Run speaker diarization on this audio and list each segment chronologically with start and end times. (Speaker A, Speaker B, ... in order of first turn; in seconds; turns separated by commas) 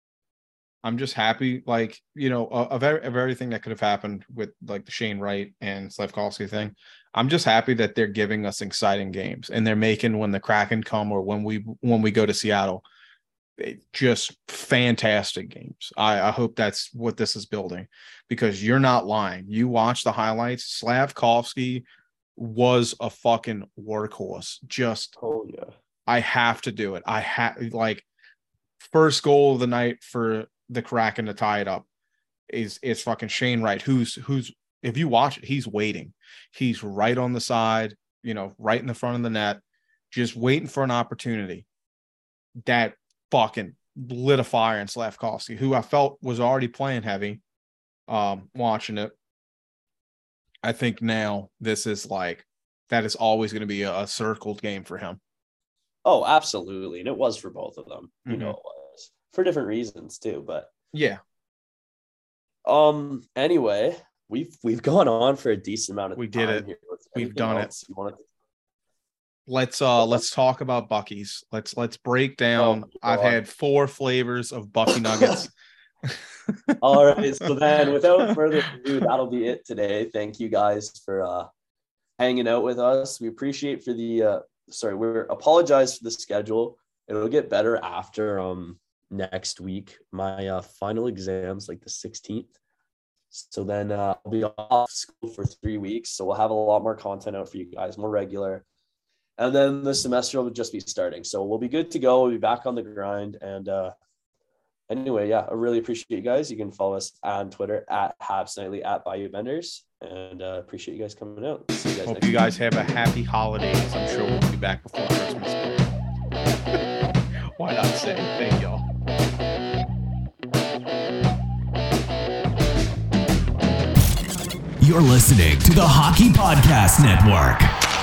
Speaker A: 0.8-12.8, Speaker A: 13.6-21.8, Speaker A: 22.4-25.1, Speaker B: 25.2-25.7, Speaker A: 26.1-28.0, Speaker A: 28.8-31.9, Speaker A: 32.5-41.6, Speaker A: 42.6-47.4, Speaker A: 48.1-49.1, Speaker A: 50.6-55.2, Speaker B: 56.0-60.7, Speaker A: 58.3-58.5, Speaker A: 60.9-61.2, Speaker B: 62.6-68.2, Speaker A: 66.2-67.7, Speaker A: 69.5-75.5, Speaker B: 72.5-73.4, Speaker B: 74.9-75.4, Speaker A: 76.0-76.8, Speaker B: 76.8-81.5, Speaker A: 78.3-78.9, Speaker B: 82.2-92.5, Speaker B: 93.3-98.6, Speaker B: 99.4-103.9, Speaker B: 104.9-112.4, Speaker A: 112.0-115.9, Speaker A: 117.6-118.8, Speaker C: 124.8-127.7